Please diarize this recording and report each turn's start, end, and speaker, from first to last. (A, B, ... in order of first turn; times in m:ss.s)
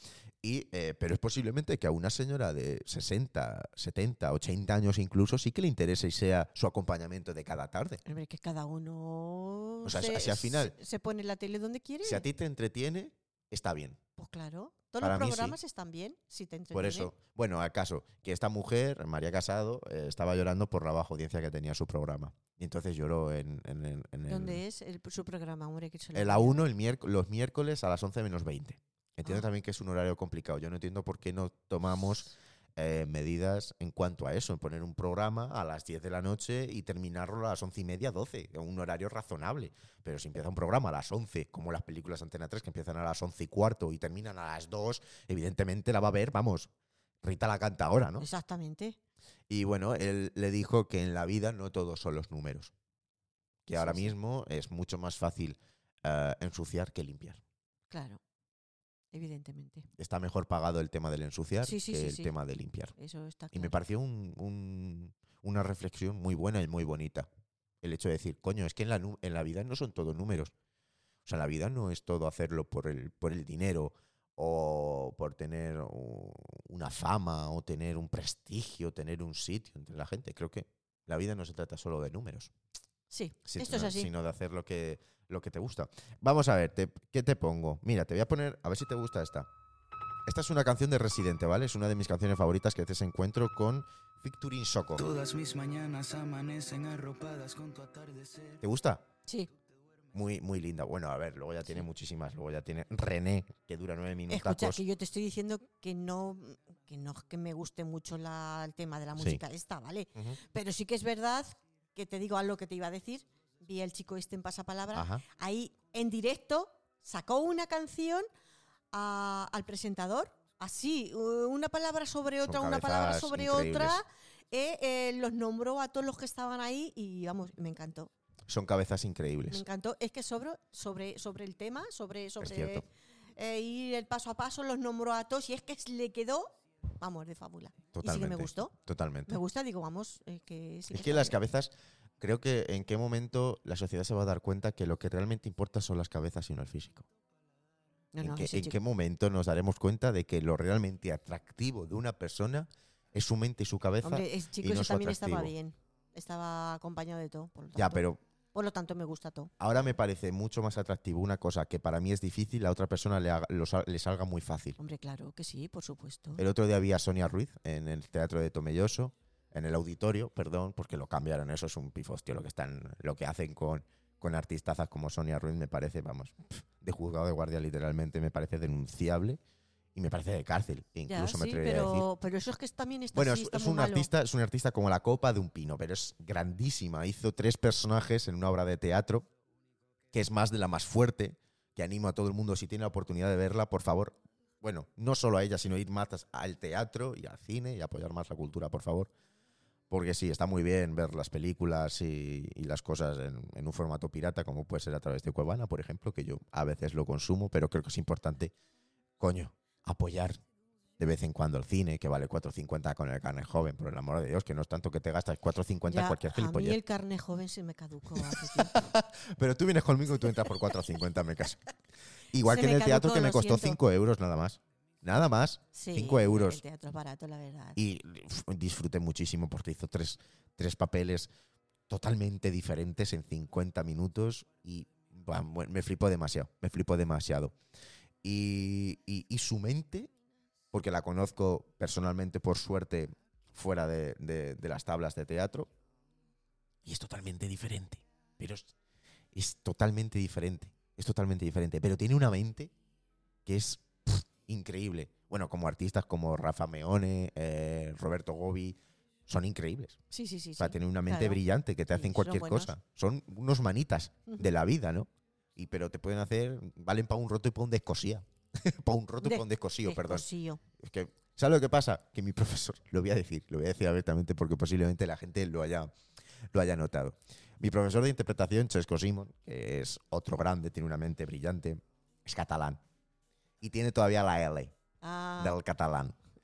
0:00.4-0:08.0 A
0:08.0-0:12.2 B
0:09.8-0:10.7 A
0:12.0-0:14.0 A
0:14.2-0:17.1 B
0:15.0-0:15.6 A
0:16.7-0:24.6 A
0:24.3-0:26.6 B
0:26.1-0:46.7 A
0:47.2-0:48.3 A
0:48.2-0:49.0 B
0:49.5-0:52.7 A
0:53.6-0:57.4 A
0:53.7-0:54.1 B
0:57.9-0:58.2 B
0:59.1-0:59.9 B
1:00.0-1:02.9 A
1:01.6-1:02.3 B
1:03.0-1:03.8 B
1:03.5-1:07.3 A
1:07.8-1:10.5 A
1:11.2-1:22.5 A
1:23.1-1:24.1 B
1:23.4-1:29.5 A
1:30.3-1:35.0 A
1:35.0-1:38.6 C
1:38.6-1:39.0 A
1:40.1-1:44.8 A
1:44.3-1:58.3 B
1:49.2-1:49.4 A
1:54.9-1:55.2 A
1:58.9-2:08.1 B
2:02.4-2:04.0 A
2:08.5-2:09.6 A
2:09.5-2:12.8 B
2:12.4-2:12.8 A
2:13.4-2:18.7 B
2:17.9-2:19.4 A
2:19.3-2:21.4 B
2:20.9-2:27.1 A
2:28.1-2:28.8 B
2:28.2-2:35.5 A
2:34.0-2:38.0 B
2:37.8-2:38.2 A
2:38.5-2:39.5 B
2:39.6-2:44.8 A
2:44.8-2:46.4 B
2:46.4-2:59.4 A
2:59.9-3:02.1 A
3:01.1-3:04.1 B
3:03.1-3:09.3 A
3:10.1-3:19.1 A
3:19.9-3:28.5 A
3:29.2-3:30.4 A
3:31.0-3:36.8 A
3:35.8-3:38.7 B
3:38.2-3:41.6 A
3:42.3-3:46.6 A
3:42.4-3:43.8 B
3:45.7-3:47.8 B
3:47.8-3:51.3 A
3:51.9-3:57.5 A
3:58.2-4:00.1 A
4:00.7-4:05.7 A
4:06.8-4:08.7 A
4:09.3-4:12.7 A
4:13.4-4:20.0 A
4:20.1-4:21.4 B
4:20.6-4:35.9 A
4:21.9-4:22.7 B
4:29.2-4:30.6 B
4:36.5-4:42.8 A
4:43.6-4:44.7 A
4:45.0-4:45.6 B
4:45.4-4:46.2 A